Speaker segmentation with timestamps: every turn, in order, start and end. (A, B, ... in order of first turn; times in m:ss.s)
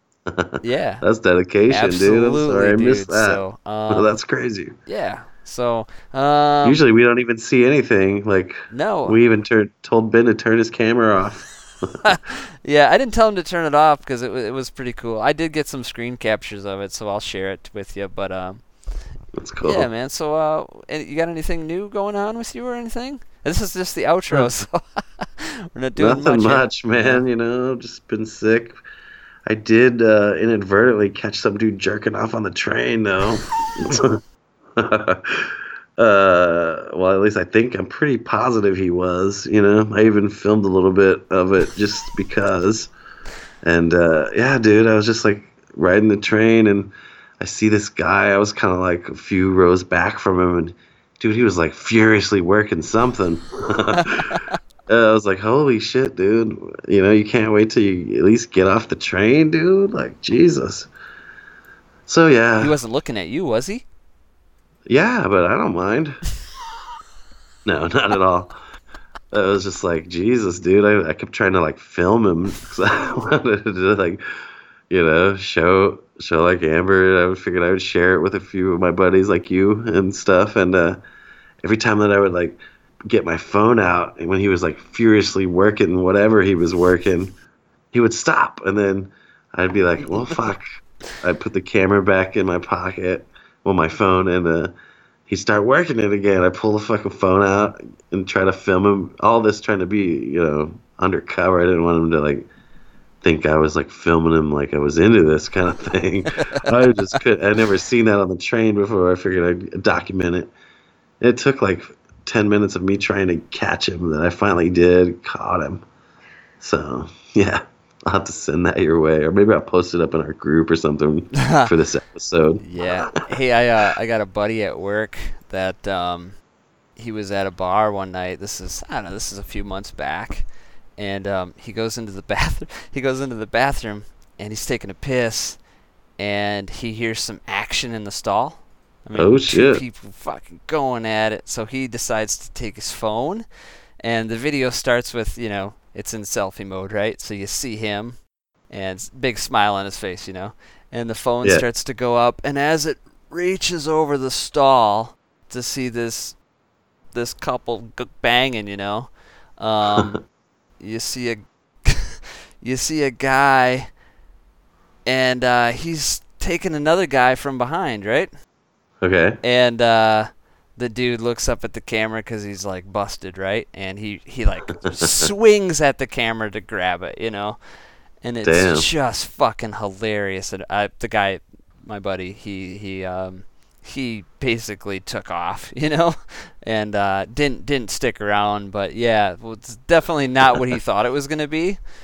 0:00.3-0:04.8 A
0:00.6-0:01.0 B
0:01.7-0:04.1 B
0:04.8-0:06.8 B
0:06.6-0:12.2 A
0:08.7-0:09.2 B
0:12.0-0:18.6 B
0:19.4-0:19.9 A
0:19.6-0:27.2 B
0:26.0-0:28.8 A
0:29.5-0:34.2 A
0:34.8-0:42.9 A
0:43.6-0:54.3 A
0:54.9-1:00.9 A
1:02.1-1:02.8 A
1:02.6-1:03.8 B
1:04.9-1:06.2 A
1:07.6-1:08.5 A
1:09.3-1:14.2 A
1:14.9-1:21.0 A
1:21.6-1:27.3 A
1:27.9-1:30.6 A
1:30.0-1:30.4 B
1:31.2-1:34.7 A
1:35.3-1:42.5 A
1:43.2-1:50.5 A
1:51.2-1:55.8 A
1:56.6-2:03.1 A
2:01.4-2:01.7 B
2:02.6-2:06.4 B
2:07.0-2:15.6 B
2:16.2-2:23.4 B
2:19.1-2:19.8 A
2:24.0-2:36.4 B
2:37.1-2:40.2 B
2:40.8-2:43.9 B
2:45.0-2:48.3 B
2:49.0-2:49.4 A
2:49.4-2:57.6 B
2:58.2-3:11.8 B
2:58.4-2:58.9 A